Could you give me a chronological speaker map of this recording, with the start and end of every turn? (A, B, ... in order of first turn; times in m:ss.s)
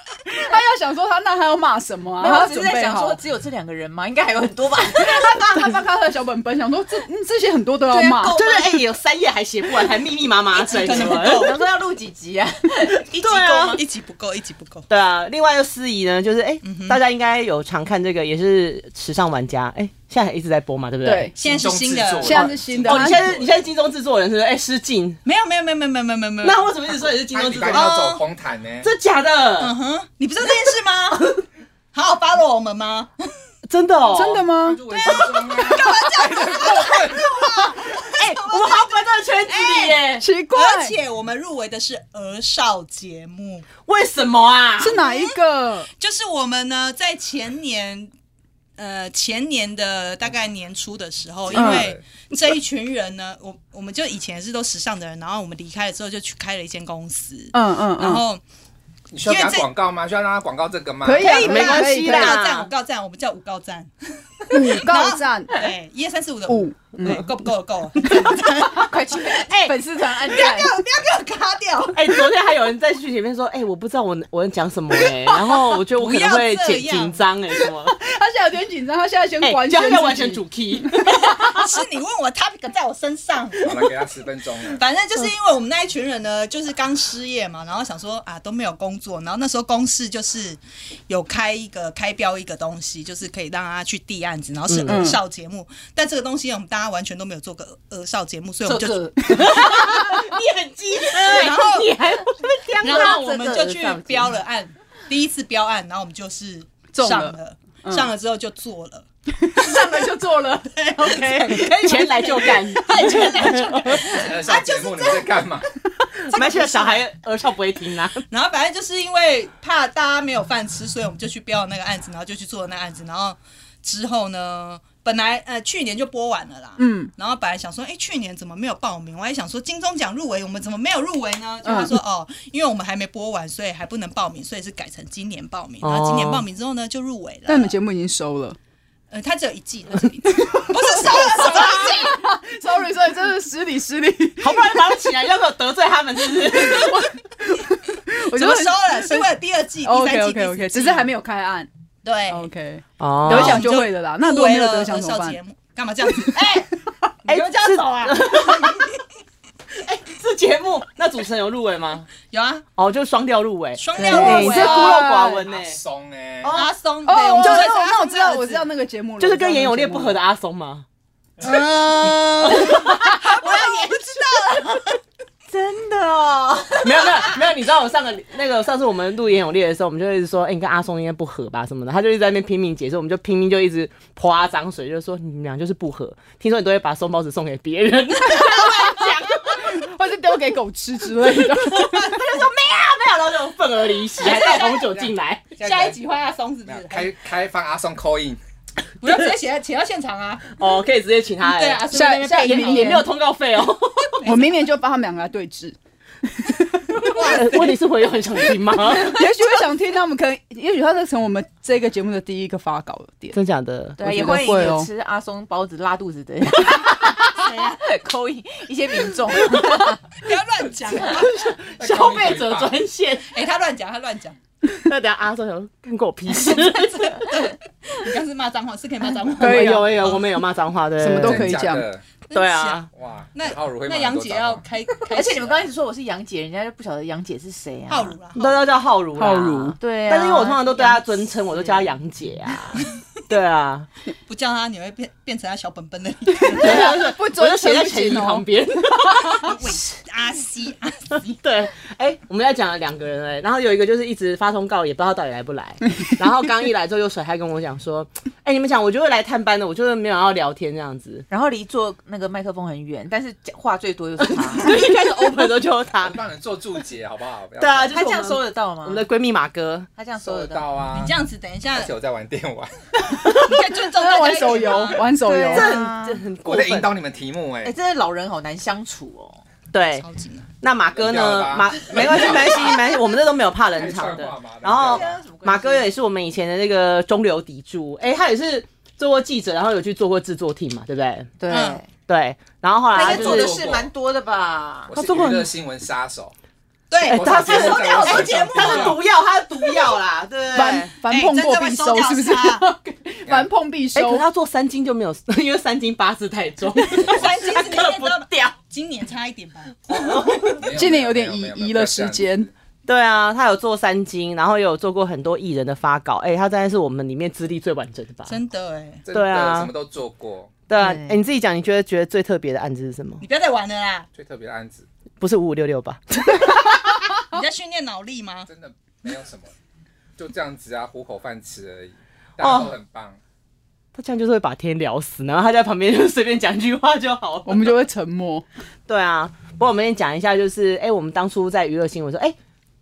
0:00.3-0:03.2 A
0:02.2-0:05.6 B
0:04.9-0:08.4 A
0:07.9-0:08.8 C
0:08.3-0:11.5 D
0:10.5-0:11.6 C
0:10.9-0:13.8 B
0:13.2-0:13.8 D
0:13.2-0:14.8 C
0:14.9-0:21.3 D
0:16.6-0:17.0 C
0:21.0-0:21.5 A
0:21.4-0:22.4 C
0:21.4-0:23.6 E
0:22.2-0:23.2 A
0:22.3-0:25.2 D
0:25.2-0:26.7 C
0:26.4-0:27.9 D
0:26.9-0:28.9 E
0:27.6-0:28.2 C
0:28.8-0:29.7 D
0:29.6-0:31.3 C
0:31.2-0:31.4 D
0:31.9-0:33.3 C
0:33.6-0:34.4 D
0:34.1-0:34.9 A
0:34.6-0:37.7 E
0:34.9-0:43.6 C
0:38.2-0:40.3 D
0:40.2-0:41.0 A
0:43.9-0:45.0 D
0:44.8-0:45.9 A
0:45.0-0:45.3 C
0:46.0-0:48.1 C
0:48.8-0:58.4 C
0:51.5-0:52.0 E
0:51.5-0:51.9 A
0:57.5-0:58.2 A
0:59.1-1:01.4 E
0:59.2-0:59.7 C
1:01.0-1:02.4 A
1:01.2-1:09.4 C
1:01.3-1:02.7 D
1:04.5-1:05.7 A
1:06.5-1:07.3 A
1:08.0-1:08.4 A
1:08.7-1:10.8 B
1:09.5-1:09.7 D
1:10.2-1:12.1 C
1:11.9-1:17.9 D
1:15.8-1:17.2 C
1:17.9-1:21.6 A
1:19.4-1:21.1 D
1:21.1-1:23.8 C
1:23.6-1:24.8 E
1:24.7-1:39.6 C
1:34.7-1:35.2 D
1:34.8-1:35.2 A
1:38.6-1:40.4 B
1:39.2-1:43.2 D
1:39.3-1:40.2 A
1:41.0-1:41.4 B
1:41.1-1:41.9 C
1:42.7-1:44.4 B
1:42.8-1:50.0 C
1:46.9-1:48.1 A
1:49.3-1:54.3 A
1:50.7-1:55.3 C
1:51.3-1:54.0 D
1:54.0-1:55.6 E
1:56.2-1:58.2 D
1:56.3-1:57.0 C
1:58.3-2:17.7 C
2:06.8-2:07.1 A
2:11.6-2:12.0 A
2:15.8-2:16.4 D
2:17.5-2:18.6 A
2:19.1-2:22.2 C
2:20.4-2:24.6 A
2:24.4-2:27.0 D
2:26.4-2:29.3 A
2:28.3-2:31.1 C
2:29.8-2:31.7 A
2:32.0-2:32.5 C
2:32.3-2:35.4 A
2:33.0-2:33.7 D
2:33.2-2:36.6 C
2:36.2-2:36.9 A
2:37.2-2:38.8 C
2:37.2-2:38.9 D
2:39.8-2:42.1 D
2:42.3-2:42.6 C
2:42.8-2:45.8 D
2:43.8-2:45.0 C
2:44.0-2:45.4 A
2:45.5-2:46.5 E
2:46.4-2:46.7 D
2:46.5-2:48.6 C
2:47.0-2:50.2 A
2:49.2-2:50.8 D
2:51.4-2:54.9 C
2:52.4-2:53.8 D
2:55.5-2:57.4 B
2:56.8-3:09.6 D
3:08.3-3:12.2 A
3:11.7-3:15.5 D
3:14.2-3:15.0 C
3:14.6-3:16.0 E
3:15.6-3:17.1 C
3:16.6-3:18.4 E
3:19.0-3:20.6 C
3:20.6-3:24.3 D
3:21.4-3:23.1 C
3:21.9-3:23.1 A
3:24.2-3:24.5 C
3:24.2-3:27.5 A
3:27.0-3:27.7 C
3:27.0-3:29.2 D
3:28.8-3:33.4 A
3:33.3-3:34.4 D
3:34.0-3:40.0 B
3:34.0-3:34.9 A
3:37.3-3:37.8 C
3:40.2-3:41.3 C
3:41.0-3:43.3 D
3:41.8-3:42.8 E
3:43.2-3:44.4 C
3:44.7-3:47.3 D
3:46.5-3:47.2 B
3:47.2-3:50.3 C
3:49.4-3:50.1 A
3:49.4-3:51.5 D
3:51.0-3:51.9 A
3:51.2-3:52.0 E
3:52.3-3:55.6 C
3:52.3-3:52.9 D
3:52.9-3:54.6 E
3:55.1-3:58.2 B
3:57.9-3:58.6 C
3:58.4-4:03.9 D
3:59.2-3:59.8 A
3:59.8-4:01.0 B
4:04.3-4:07.0 C
4:06.4-4:09.5 A
4:06.5-4:09.5 D
4:09.3-4:11.2 C
4:11.2-4:21.2 D
4:21.3-4:24.8 B
4:24.2-4:26.2 D
4:26.0-4:28.0 E
4:27.6-4:29.9 D
4:27.9-4:29.0 B
4:30.0-4:30.6 B
4:30.2-4:31.1 E
4:30.9-4:31.9 C
4:31.7-4:33.2 E
4:33.3-4:35.8 A
4:33.4-4:35.0 C
4:35.1-4:36.2 B
4:35.5-4:36.9 D
4:36.4-4:37.7 E
4:37.6-4:39.4 B
4:39.7-4:40.0 D
4:40.0-4:40.5 C
4:40.6-4:51.3 D
4:40.9-4:42.9 E
4:43.7-4:45.2 E
4:44.7-4:45.9 B
4:51.4-4:51.9 B
4:51.5-4:51.8 C
4:52.1-4:53.5 D
4:52.9-4:54.9 B
4:53.0-4:53.9 E
4:54.9-4:56.3 E
4:54.9-4:55.5 D
4:56.9-4:59.0 C
4:57.0-4:59.0 E
4:57.0-5:00.9 D
5:00.5-5:04.2 A
5:01.0-5:02.6 C
5:03.2-5:03.5 E
5:03.9-5:08.5 D
5:06.9-5:10.3 C
5:07.0-5:07.4 E
5:09.9-5:10.6 D
5:10.4-5:12.5 E
5:10.6-5:12.5 A
5:12.8-5:18.4 D
5:18.3-5:19.0 C
5:19.0-5:20.5 E
5:19.1-5:19.7 D
5:20.7-5:23.2 D
5:20.8-5:21.2 B
5:23.2-5:24.1 C
5:24.1-5:24.8 E
5:25.2-5:26.9 D
5:27.3-5:28.5 C
5:28.5-5:29.5 E
5:30.2-5:33.2 E
5:32.4-5:32.7 D
5:33.9-5:37.7 D
5:37.4-5:38.4 A
5:38.9-5:42.4 D